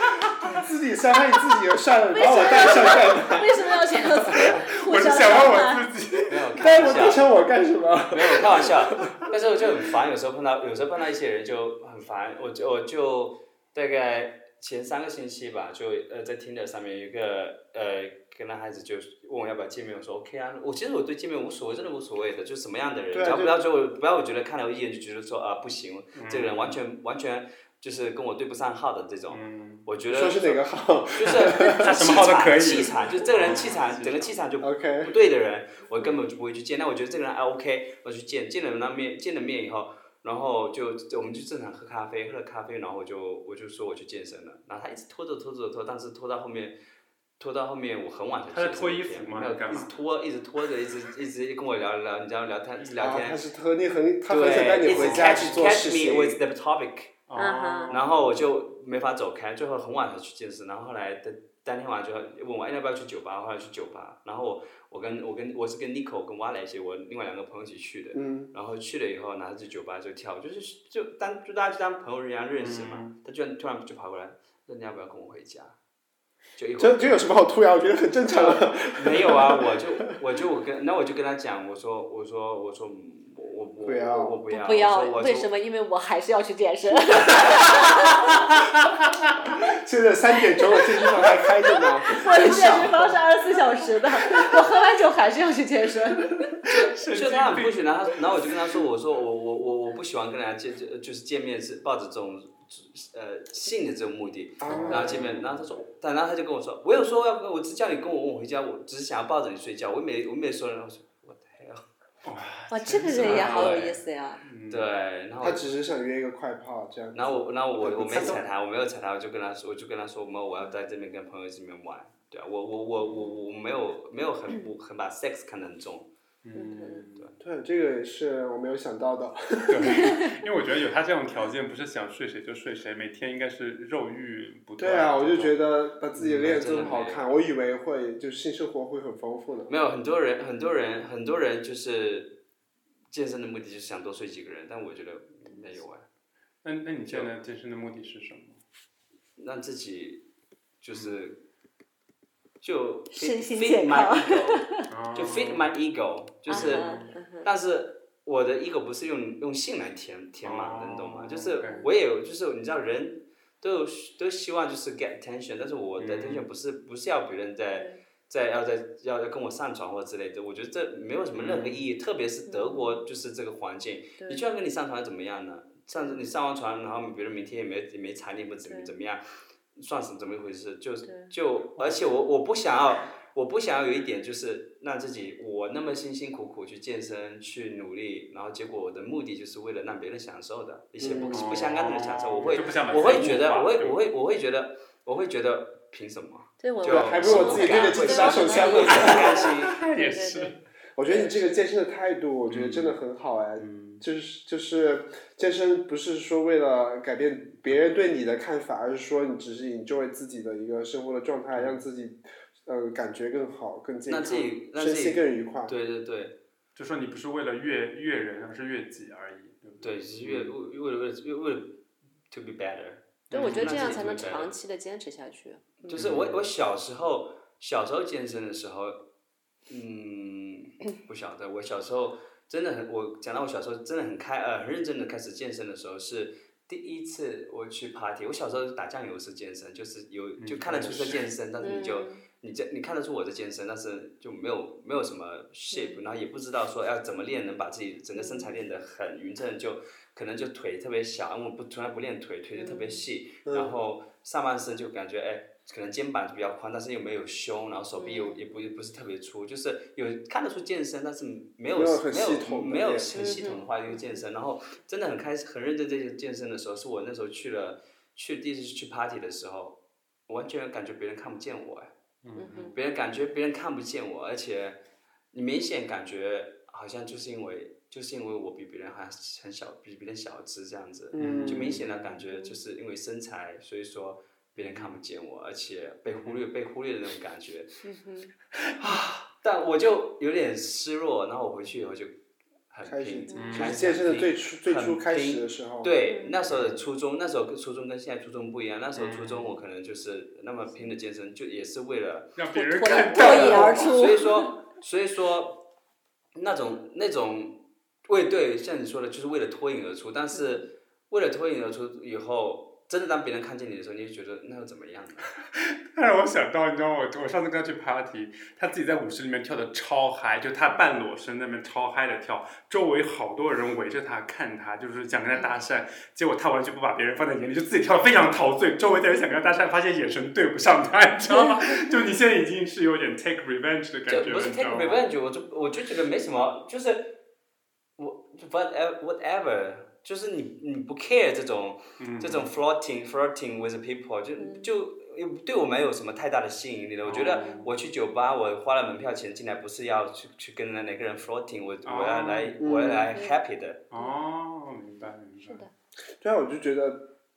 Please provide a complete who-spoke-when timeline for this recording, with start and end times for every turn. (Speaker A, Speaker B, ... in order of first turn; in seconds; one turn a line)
Speaker A: 0.4-4.6
Speaker B: 2.1-5.9
Speaker C: 4.4-7.2
Speaker D: 6.3-7.3
Speaker A: 6.6-9.2
Speaker D: 8.1-46.8
Speaker A: 23.1-23.6
Speaker C: 26.1-26.8
Speaker C: 29.3-29.9
Speaker A: 30.1-31.9
Speaker C: 31.6-34.4
Speaker A: 34.6-35.1
Speaker D: 47.4-53.4
Speaker C: 48.5-49.9
Speaker A: 53.0-56.4
Speaker D: 54.3-57.2
Speaker C: 54.9-55.7
Speaker C: 57.3-58.4
Speaker B: 57.3-58.0
Speaker D: 57.9-75.8
Speaker A: 68.1-68.5
Speaker C: 72.6-73.1
Speaker D: 76.6-77.3
Speaker A: 76.8-79.8
Speaker D: 78.3-85.5
Speaker A: 83.8-84.4
Speaker B: 84.5-88.5
Speaker A: 89.6-93.0
Speaker B: 90.5-91.3
Speaker B: 91.9-96.6
Speaker C: 92.7-93.0
Speaker C: 96.7-98.1
Speaker D: 96.7-111.8
Speaker A: 104.6-105.4
Speaker C: 104.7-105.5
Speaker C: 112.2-114.9
Speaker B: 112.7-114.4
Speaker D: 113.2-114.0
Speaker D: 114.7-115.7
Speaker A: 115.4-118.5
Speaker D: 117.1-126.1
Speaker B: 123.0-123.4
Speaker C: 126.4-127.3
Speaker B: 126.5-127.1
Speaker A: 127.4-130.2
Speaker C: 129.7-135.6
Speaker A: 134.8-139.7
Speaker D: 136.2-137.3
Speaker D: 139.7-142.4
Speaker D: 143.1-146.1
Speaker C: 146.6-148.6
Speaker D: 149.4-150.2
Speaker D: 150.8-151.4
Speaker D: 152.6-199.8
Speaker B: 153.1-154.9
Speaker C: 154.9-155.7
Speaker B: 156.5-157.5
Speaker C: 156.5-157.1
Speaker C: 160.4-161.9
Speaker B: 161.6-161.9
Speaker C: 166.0-166.4
Speaker B: 167.7-168.0
Speaker C: 171.3-171.9
Speaker B: 172.5-173.0
Speaker B: 174.2-174.5
Speaker B: 176.0-176.3
Speaker B: 178.7-178.9
Speaker B: 181.1-181.3
Speaker A: 191.0-191.5
Speaker B: 191.1-191.4
Speaker C: 191.3-194.0
Speaker B: 192.4-193.1
Speaker B: 196.6-200.6
Speaker A: 196.8-199.3
Speaker C: 197.2-200.6
Speaker A: 201.0-215.7
Speaker B: 201.1-201.6
Speaker C: 202.5-203.0
Speaker C: 203.6-204.0
Speaker C: 211.5-211.8
Speaker D: 214.1-216.4
Speaker C: 216.8-220.5
Speaker D: 219.8-221.8
Speaker D: 222.3-224.5
Speaker B: 223.3-225.9
Speaker C: 223.3-224.3
Speaker D: 225.9-229.1
Speaker C: 225.9-226.5
Speaker D: 229.7-271.9
Speaker C: 240.4-241.2
Speaker B: 241.6-242.2
Speaker B: 245.7-246.0
Speaker B: 248.1-248.6
Speaker B: 252.6-253.0
Speaker A: 253.5-253.7
Speaker B: 258.0-258.4
Speaker A: 261.7-263.5
Speaker B: 263.1-264.2
Speaker C: 272.2-272.7
Speaker B: 272.4-272.8
Speaker D: 272.7-274.8
Speaker D: 275.3-287.7
Speaker A: 281.1-281.8
Speaker C: 281.2-282.1
Speaker B: 282.3-282.6
Speaker C: 284.6-285.0
Speaker C: 286.1-286.4
Speaker B: 287.8-288.3
Speaker D: 288.7-292.1
Speaker D: 292.7-302.4
Speaker A: 292.9-295.9
Speaker B: 293.3-293.6
Speaker C: 293.3-293.8
Speaker B: 296.1-296.4
Speaker C: 296.5-296.8
Speaker C: 299.0-299.5
Speaker C: 302.4-304.1
Speaker B: 302.5-304.6
Speaker A: 303.2-303.6
Speaker D: 303.2-305.6
Speaker D: 306.4-315.3
Speaker B: 310.3-310.6
Speaker C: 315.5-335.0
Speaker D: 334.1-337.1
Speaker D: 338.0-353.8
Speaker C: 342.0-342.5
Speaker B: 344.4-344.7
Speaker C: 347.1-347.8
Speaker C: 351.9-352.6
Speaker A: 352.6-353.1
Speaker B: 353.1-353.4
Speaker C: 353.9-355.6
Speaker A: 356.2-357.1